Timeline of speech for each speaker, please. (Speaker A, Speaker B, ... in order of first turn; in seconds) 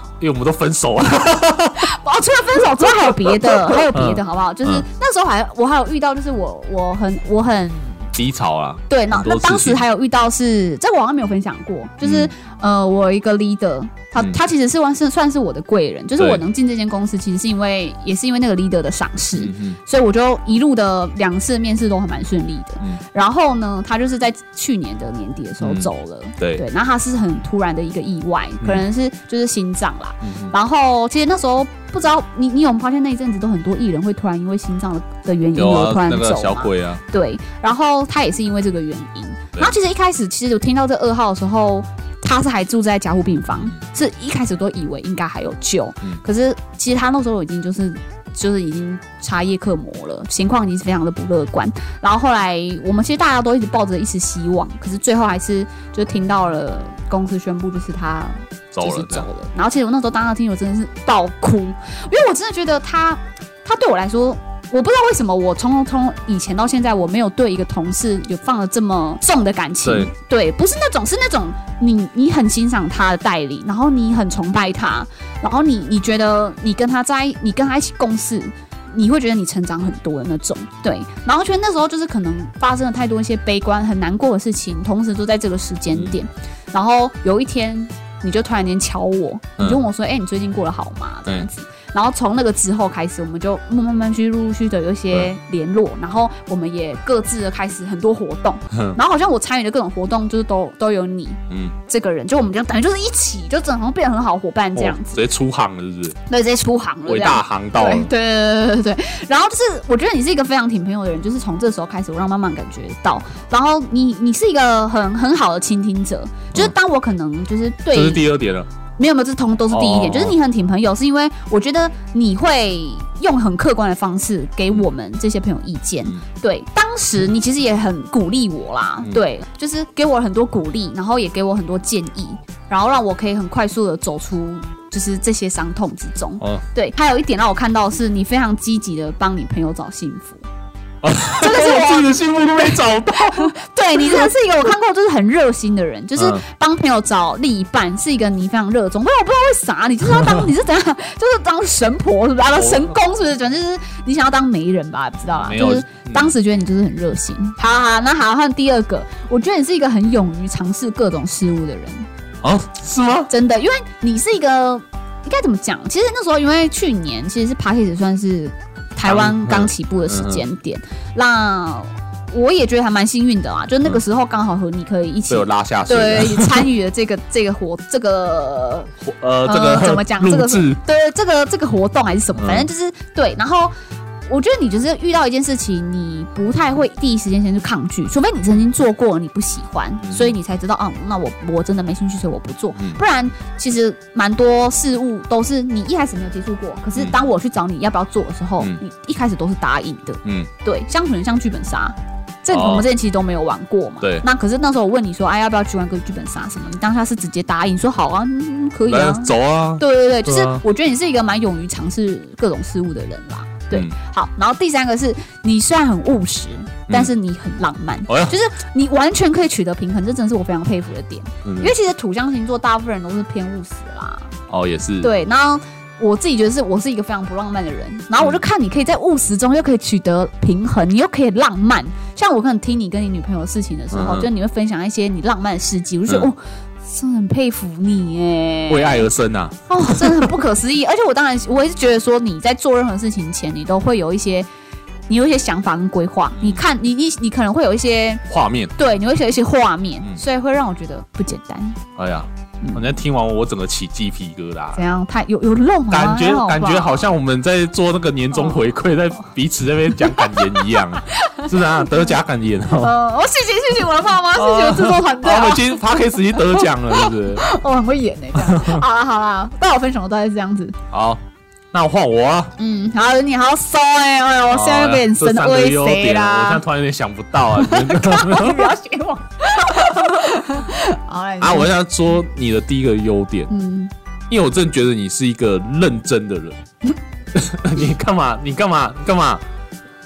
Speaker A: 0.2-1.9, 2.8-4.8, 8.1-9.8, 12.0-12.3, 16.2-16.4, 19.4-19.8, 25.6-26.6, 30.2-30.5, 35.5-37.0, 58.7-59.2, 69.8-70.1, 98.7-99.0, 101.5-101.7, 104.7-106.2, 107.0-108.1, 117.9-118.7, 119.7-120.4, 141.0-144.3, 146.2-146.4, 152.5-153.0, 155.4-156.3, 162.4-163.3, 169.0-170.4, 175.3-176.7, 179.0-180.8, 182.4-182.7, 190.0-190.3, 200.2-200.5, 202.5-202.9, 204.0-204.2, 208.9-210.6, 218.1-218.3, 221.4-221.7, 224.5-225.1, 233.9-234.3, 238.7-240.3, 246.4-246.6, 248.3-248.7, 252.0-254.8, 255.9-262.9, 264.3-267.5, 268.3-268.8, 270.9-272.5, 274.5-278.7, 279.7-280.2, 281.4-283.5, 284.3-286.6, 287.3-289.4
Speaker B: 1.8-8.1, 8.9-105.2, 106.3-118.2, 119.0-140.4, 141.2-162.1, 163.3-178.9, 179.4-183.7, 184.3-224.3, 225.0-239.1, 239.7-244.5, 245.1-248.2, 248.8-251.8, 252.6-252.9, 254.7-257.0, 258.3-258.6, 260.2-262.1, 262.8-270.8, 272.6-276.6, 277.5-281.7, 283.5-283.9